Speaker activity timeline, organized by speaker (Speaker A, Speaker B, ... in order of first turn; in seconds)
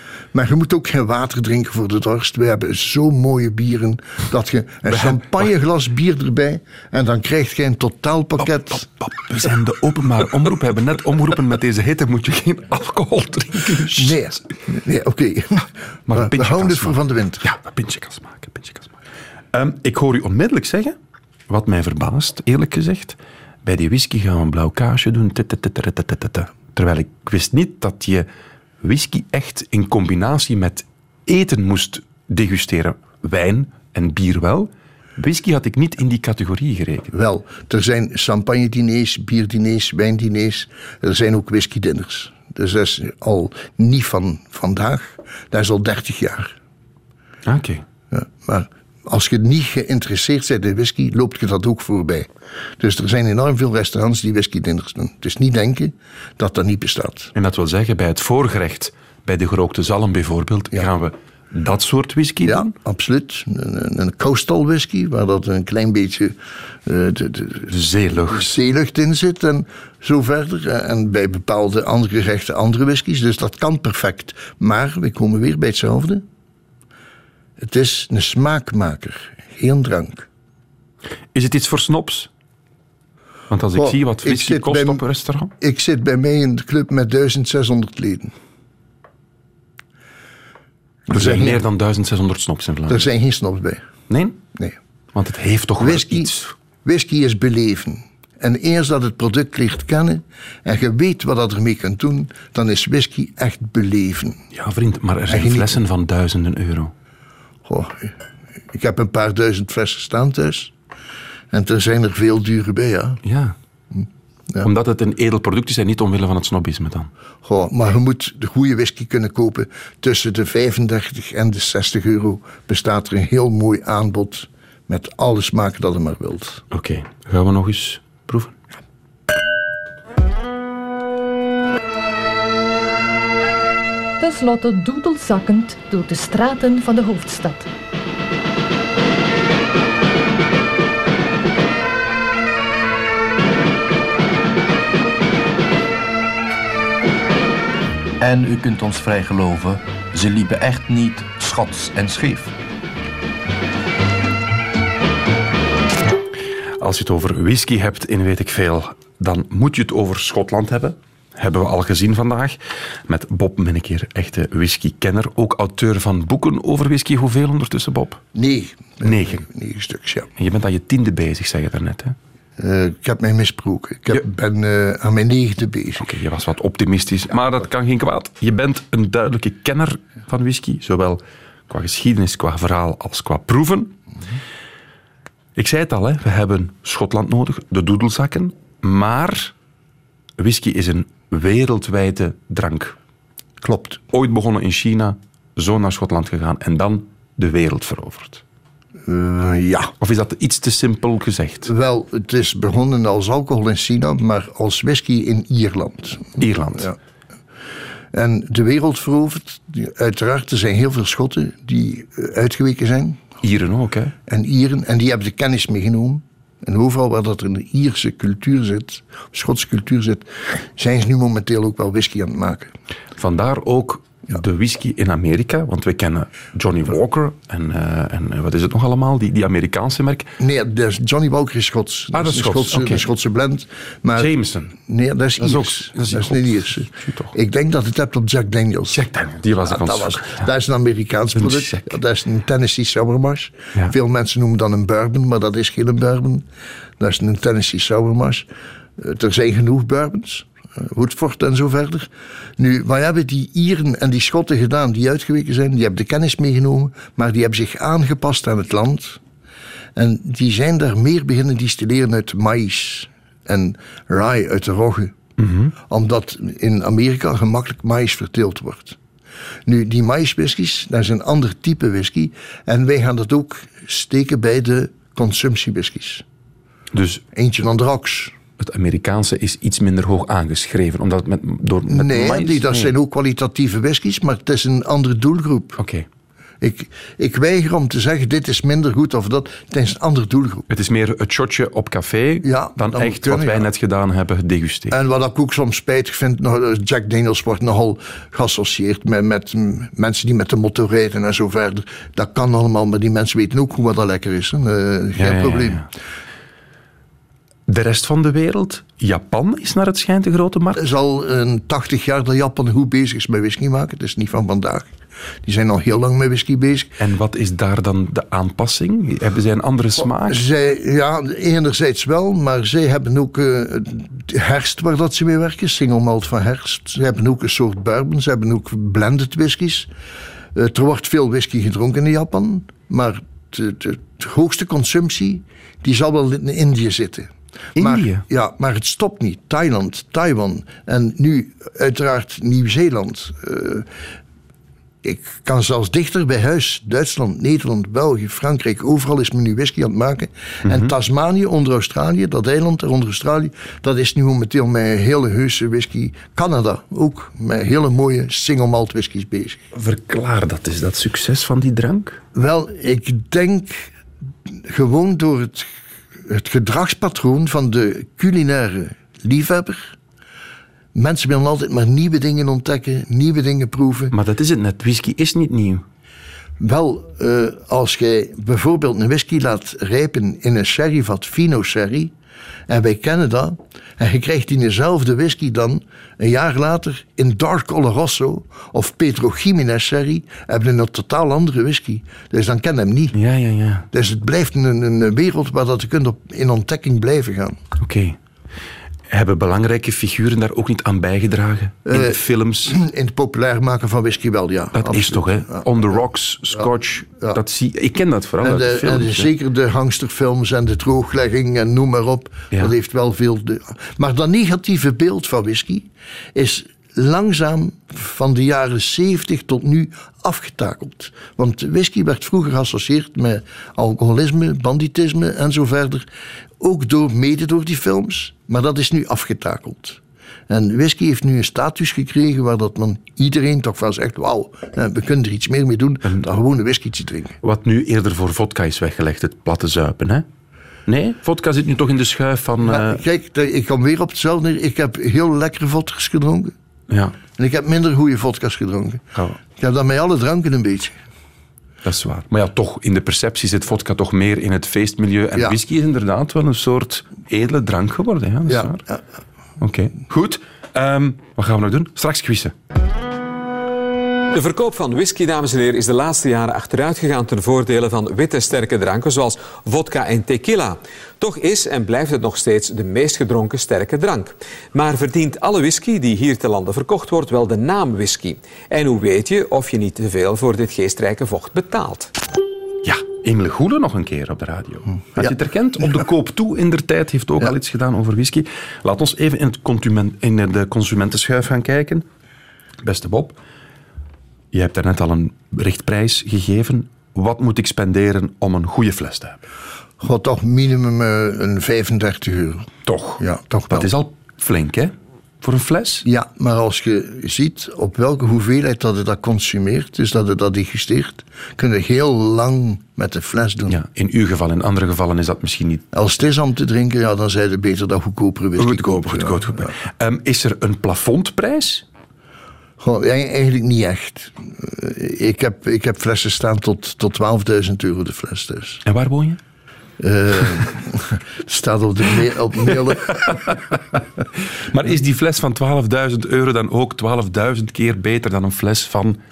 Speaker A: 0.3-8.9, 13.9-17.4, 37.1-46.5, 48.1-52.3, 52.8-57.3, 62.4-67.7, 68.3-76.2, 77.6-80.3, 83.7-85.0, 85.6-88.3, 91.1-91.6, 92.9-93.8, 95.8-96.3, 96.8-104.4, 105.3-105.8, 107.7-108.1, 108.7-110.7, 111.5-113.2, 113.9-114.7, 117.4-126.6, 168.3-170.3, 172.6-176.1, 193.6-194.0, 199.1-199.9, 201.6-206.9, 208.1-213.2, 214.3-222.7, 230.4-239.0, 239.7-246.4, 247.0-248.4, 249.0-259.2, 259.9-265.1, 265.9-269.0, 269.6-276.2, 277.3-278.3, 281.9-285.8, 286.6-290.7, 292.4-293.7, 294.9-305.9, 310.7-314.9, 315.4-316.9, 320.2-329.9, 330.6-343.9, 345.0-359.6, 362.3-363.9, 364.5-365.7, 366.2-369.9, 370.9-374.1, 376.6-382.1, 382.7-393.2, 393.9-397.6, 401.9-405.7, 408.4-426.1, 426.6-437.4, 442.6-446.5, 447.4-451.0, 458.5-459.0, 500.0-502.7, 503.2-503.9, 506.1-513.8, 515.9-519.7, 522.8-528.8, 530.0-533.6
Speaker B: 4.9-5.5, 8.4-14.4, 16.1-19.0, 19.5-21.0, 21.5-28.3, 28.8-37.1, 47.4-47.8, 57.4-62.7, 67.7-68.5, 81.3-82.3, 83.5-85.5, 91.1-93.1, 94.1-94.4, 95.1-96.5, 104.5-106.9, 113.2-113.6, 114.6-117.1, 126.7-128.6, 156.8-168.2, 169.0-169.4, 170.4-172.2, 175.9-184.0, 185.6-189.5, 190.4-192.9, 194.1-198.4, 200.0-201.7, 206.4-206.9, 213.4-214.1, 223.2-230.4, 232.1-233.1, 234.1-234.7, 235.4-237.3, 238.9-240.5, 241.4-242.0, 265.4-265.7, 276.9-277.2, 278.6-282.9, 285.8-286.1, 290.7-294.9, 305.1-305.9, 307.7-310.9, 317.0-320.4, 337.8-338.2, 350.6-350.9, 359.7-362.2, 374.1-375.9, 393.1-393.9, 397.8-398.2, 399.1-402.8, 404.7-409.3, 437.4-440.2, 440.9-443.0, 446.9-447.2, 451.8-458.8, 459.6-462.6, 482.8-492.1, 492.8-493.4, 494.5-499.4, 502.9-506.1, 513.7-515.9, 518.6-521.9, 528.9-529.4, 533.1-539.2
Speaker C: 134.2-137.7
Speaker D: 148.2-152.6
Speaker E: 464.3-482.1